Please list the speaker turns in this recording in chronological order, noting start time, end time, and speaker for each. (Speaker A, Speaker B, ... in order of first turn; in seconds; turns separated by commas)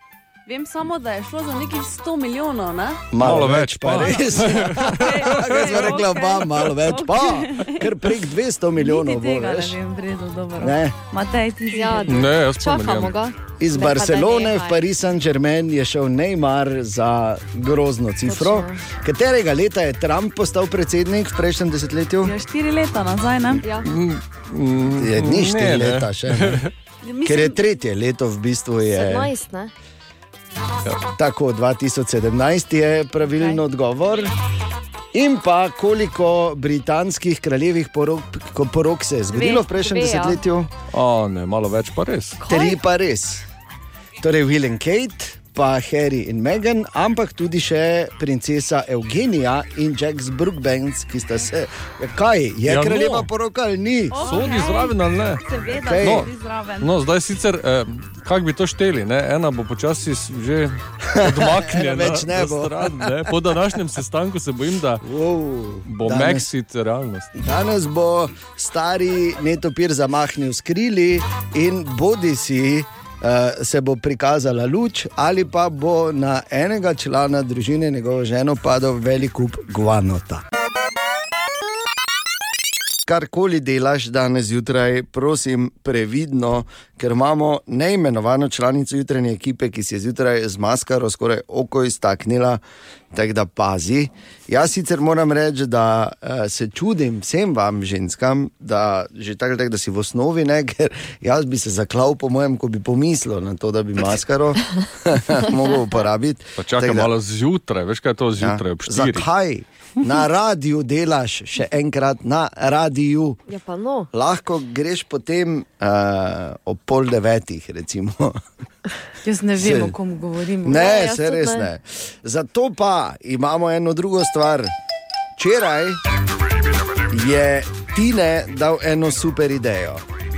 Speaker A: 0.5-3.0, Speaker B: 3.1-9.8, Speaker C: 3.2-6.0, Speaker A: 4.0-7.9, Speaker A: 8.7-12.3, Speaker B: 10.6-10.9, Speaker D: 11.7-14.8, Speaker C: 12.1-13.1, Speaker B: 13.6-22.3, Speaker D: 18.3-18.8, Speaker A: 22.2-23.6, Speaker C: 23.8-26.7, Speaker B: 24.9-26.6, Speaker A: 27.0-27.6, Speaker B: 27.2-29.3, Speaker D: 28.9-29.7, Speaker B: 31.1-34.3, Speaker B: 35.1-40.7, Speaker D: 39.3-40.4, Speaker C: 40.9-42.4, Speaker D: 42.4-42.8, Speaker B: 42.5-43.4, Speaker B: 44.2-54.3, Speaker C: 52.6-53.3, Speaker A: 54.1-56.9, Speaker C: 54.2-55.4, Speaker B: 55.8-56.3, Speaker C: 56.0-65.0, Speaker B: 61.0-63.3, Speaker B: 65.0-66.5, Speaker C: 65.8-67.3, Speaker B: 67.3-80.4, Speaker B: 83.0-92.6, Speaker B: 93.1-107.1, Speaker C: 106.6-109.3, Speaker B: 108.4-113.4, Speaker D: 113.5-114.1, Speaker B: 114.1-118.4, Speaker A: 119.2-121.5, Speaker B: 119.6-119.9, Speaker B: 120.6-124.7, Speaker B: 125.4-126.0, Speaker B: 127.1-130.0